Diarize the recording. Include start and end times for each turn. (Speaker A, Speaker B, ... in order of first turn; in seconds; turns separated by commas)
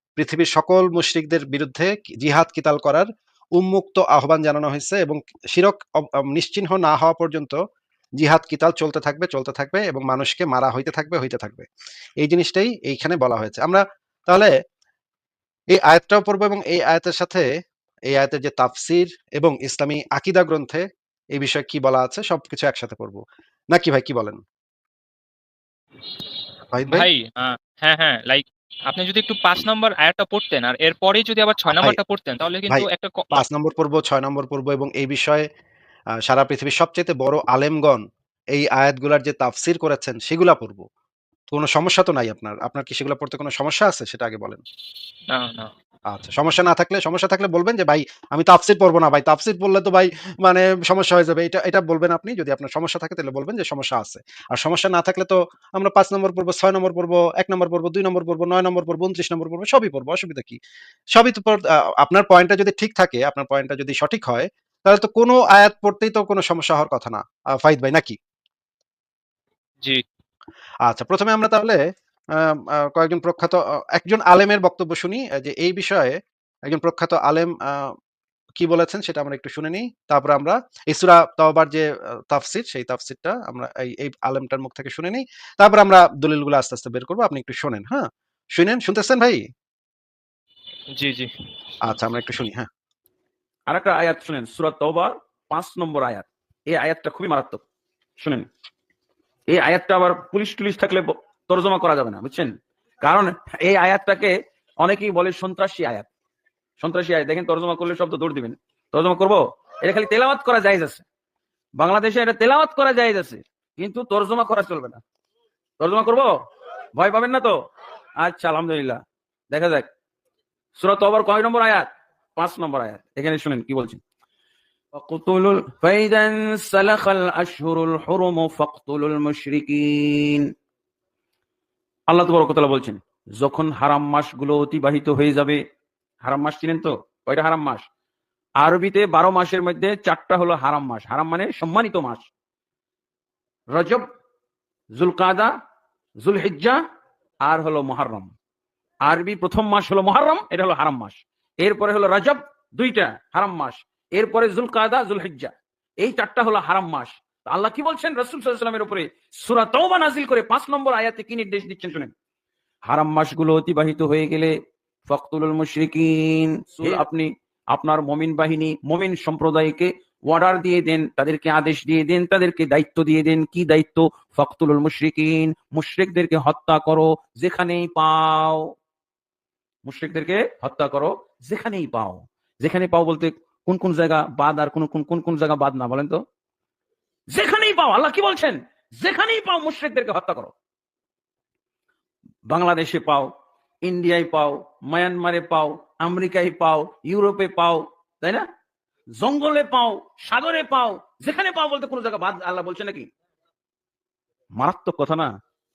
Speaker A: 0.2-7.6, Speaker A: 8.2-11.7, Speaker A: 12.2-14.5, Speaker A: 15.7-17.5, Speaker A: 18.1-24.4, Speaker A: 26.7-27.1, Speaker B: 26.9-33.4, Speaker A: 32.7-35.5, Speaker A: 36.3-40.9, Speaker A: 41.5-44.6, Speaker B: 45.3-45.7, Speaker A: 46.1-60.6, Speaker A: 61.1-68.2, Speaker A: 70.9-71.8, Speaker A: 72.3-77.9, Speaker A: 78.6-89.5, Speaker B: 90.9-91.3, Speaker A: 91.8-92.7, Speaker C: 93.7-97.6, Speaker C: 98.2-98.5, Speaker C: 99.5-106.1, Speaker C: 106.8-111.0, Speaker C: 111.8-115.0, Speaker C: 115.8-116.3, Speaker C: 117.0-117.6, Speaker C: 118.2-119.9, Speaker C: 120.8-124.0, Speaker C: 124.9-130.5, Speaker C: 132.1-135.6, Speaker C: 136.2-137.9, Speaker C: 138.6-142.3, Speaker C: 143.7-144.1, Speaker C: 144.9-145.5, Speaker C: 146.2-146.8, Speaker C: 147.4-148.3, Speaker C: 149.0-162.1, Speaker C: 162.9-164.6, Speaker C: 165.1-178.7, Speaker C: 179.8-186.2, Speaker C: 187.3-190.5, Speaker C: 192.5-198.4, Speaker C: 199.2-203.1, Speaker C: 204.6-205.3